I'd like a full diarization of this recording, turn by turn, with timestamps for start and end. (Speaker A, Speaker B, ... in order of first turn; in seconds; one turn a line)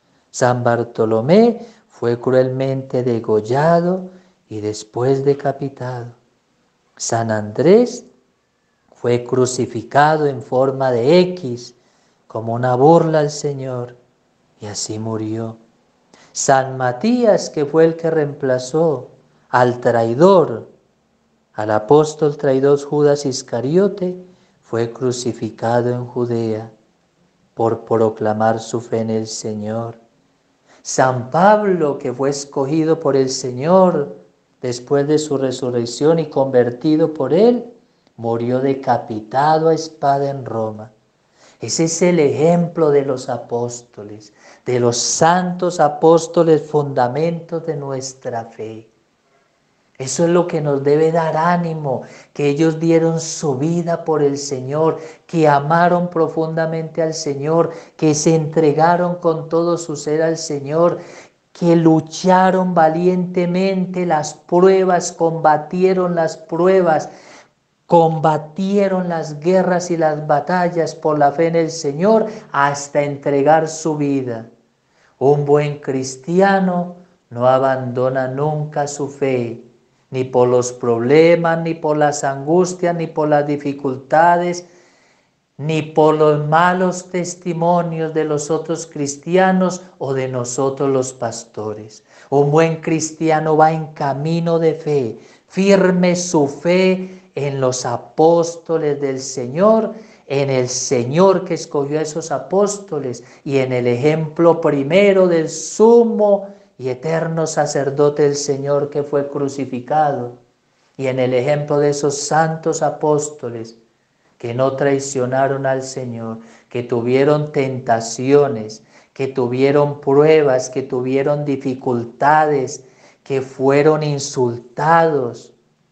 Speaker A: 0.3-6.2
Speaker A: 7.0-8.1
Speaker A: 8.9-11.8
Speaker A: 12.3-14.0
Speaker A: 14.6-15.6
Speaker A: 16.3-20.7
Speaker A: 21.5-26.7
Speaker A: 27.6-30.0
Speaker A: 30.8-40.9
Speaker A: 41.6-48.9
Speaker A: 50.0-61.0
Speaker A: 61.5-67.1
Speaker A: 67.9-74.5
Speaker A: 75.2-84.7
Speaker A: 85.6-110.4
Speaker A: 111.0-113.8
Speaker A: 114.4-125.5